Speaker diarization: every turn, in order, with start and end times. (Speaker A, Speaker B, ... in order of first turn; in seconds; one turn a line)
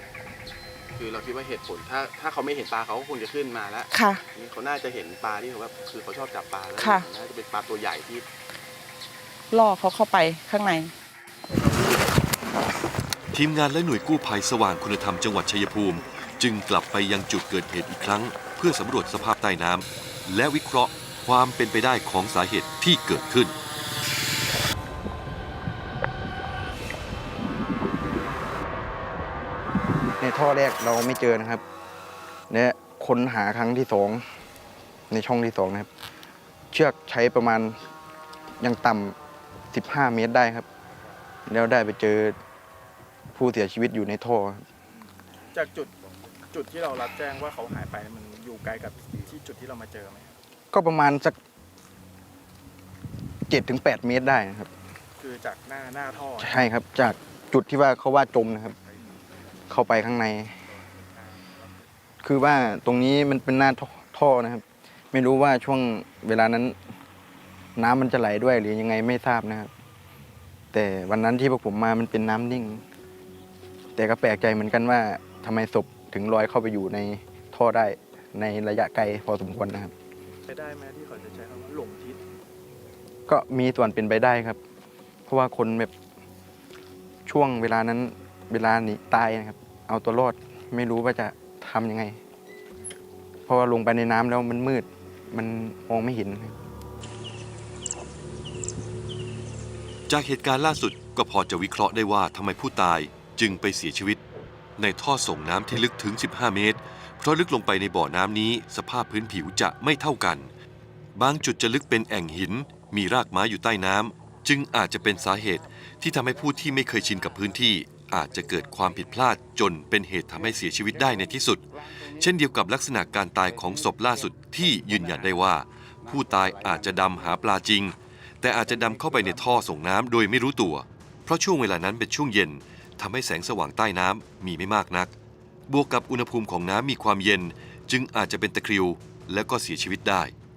Speaker A: 1.0-3.9
Speaker B: 3.9-4.2
Speaker A: 4.4-8.2
Speaker B: 6.8-7.1
Speaker B: 9.5-10.9
Speaker C: 13.3-23.5
Speaker D: 30.2-31.6
Speaker D: 32.5-34.2
Speaker D: 35.1-35.9
Speaker D: 36.7-37.8
Speaker D: 38.6-39.1
Speaker D: 39.7-40.7
Speaker D: 41.5-42.4
Speaker D: 43.3-44.6
Speaker E: 45.5-45.9
Speaker E: 46.5-50.3
Speaker D: 50.7-51.4
Speaker D: 53.5-54.7
Speaker E: 55.2-56.6
Speaker D: 56.4-58.8
Speaker D: 59.7-60.5
Speaker D: 62.2-66.8
Speaker D: 67.8-69.7
Speaker D: 70.7-72.8
Speaker D: 74.0-79.9
Speaker E: 80.5-82.2
Speaker D: 83.3-84.6
Speaker D: 85.3-85.9
Speaker D: 87.2-92.2
Speaker D: 93.5-96.5
Speaker C: 100.1-104.2
Speaker C: 104.8-110.5
Speaker C: 111.1-135.1
Speaker C: 135.7-140.3